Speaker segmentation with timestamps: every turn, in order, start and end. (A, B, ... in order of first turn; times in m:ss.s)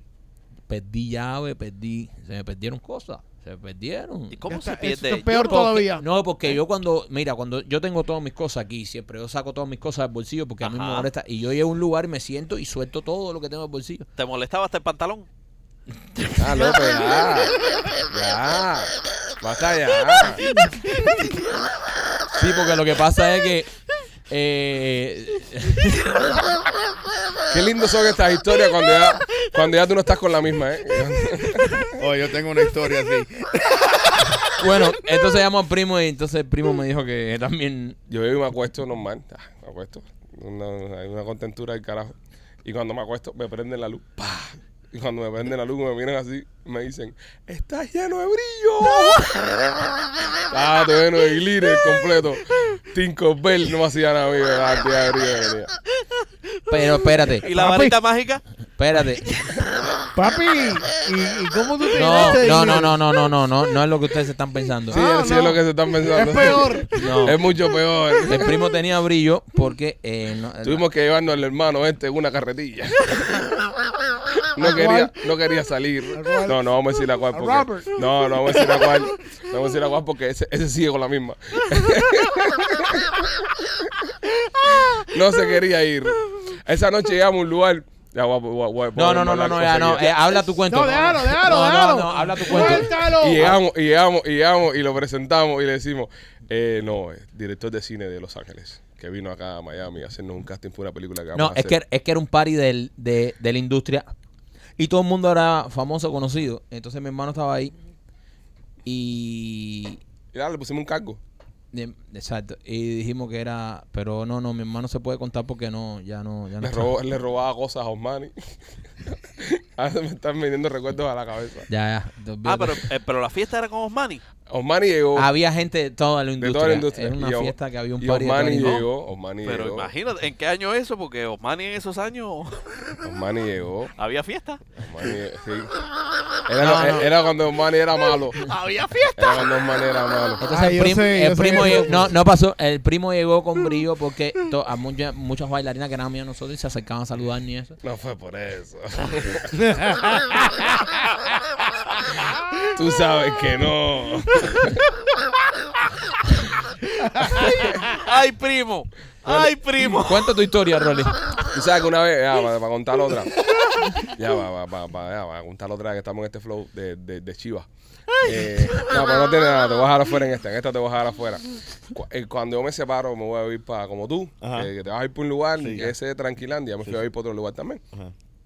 0:00.7-0:04.4 A
0:04.3-0:05.8 B
0:04.5-0:06.0 C
0:05.5-0:14.1 A
0:10.6-0:11.1 B
0:14.2-0:15.3 B
0:16.4-0:20.4 D
0:22.3-0:23.7 A
0:24.3-0:26.6 A
0:27.5-0:31.9 D
0:32.0-0:34.3 E
0:34.6-0:38.0 A
0:38.1-0:55.7 D
0:56.7-0:57.5 A
0:57.4-0:58.0 C
0:57.4-0:58.4 B
0:58.8-0:59.3 A
1:00.1-1:03.0 C
1:01.9-1:05.0 A
1:04.9-1:07.1 C
1:04.9-1:08.6 D
1:07.0-1:07.4 A
1:08.2-1:10.8 A
1:10.6-1:13.5 D
1:14.5-1:24.1 D
1:14.6-1:15.1 C
1:16.1-1:16.6 C
1:17.3-1:18.0 C
1:24.7-1:30.4 D
1:28.9-1:33.5 A
1:30.6-1:33.6 C
1:32.6-1:41.8 D
1:41.3-1:44.1 A
1:44.8-1:47.7 A
1:48.8-1:50.0 A
1:50.3-1:51.2 D
1:51.7-1:56.9 A
1:56.6-1:58.4 D
1:59.1-2:01.7 D
2:01.7-2:02.8 A
2:02.4-2:04.2 B
2:04.5-2:05.3 D
2:05.1-2:08.8 A
2:06.4-2:09.9 D
2:09.4-2:13.0 B
2:13.0-2:13.9 D
2:14.0-2:14.6 B
2:14.8-2:15.7 D
2:16.4-2:18.5 D
2:16.6-2:17.1 A
2:18.3-2:19.7 B
2:19.2-2:20.4 D
2:20.4-2:27.8 A
2:20.4-2:22.1 C
2:27.8-2:29.8 D
2:29.6-2:30.2 C
2:32.7-2:34.8 D
2:37.3-2:37.7 D
2:37.9-2:40.4 B
2:39.9-2:41.2 A
2:41.5-2:47.7 D
2:48.2-2:57.8 D
2:48.2-2:49.0 B
2:54.4-2:54.7 E
2:55.6-2:55.9 E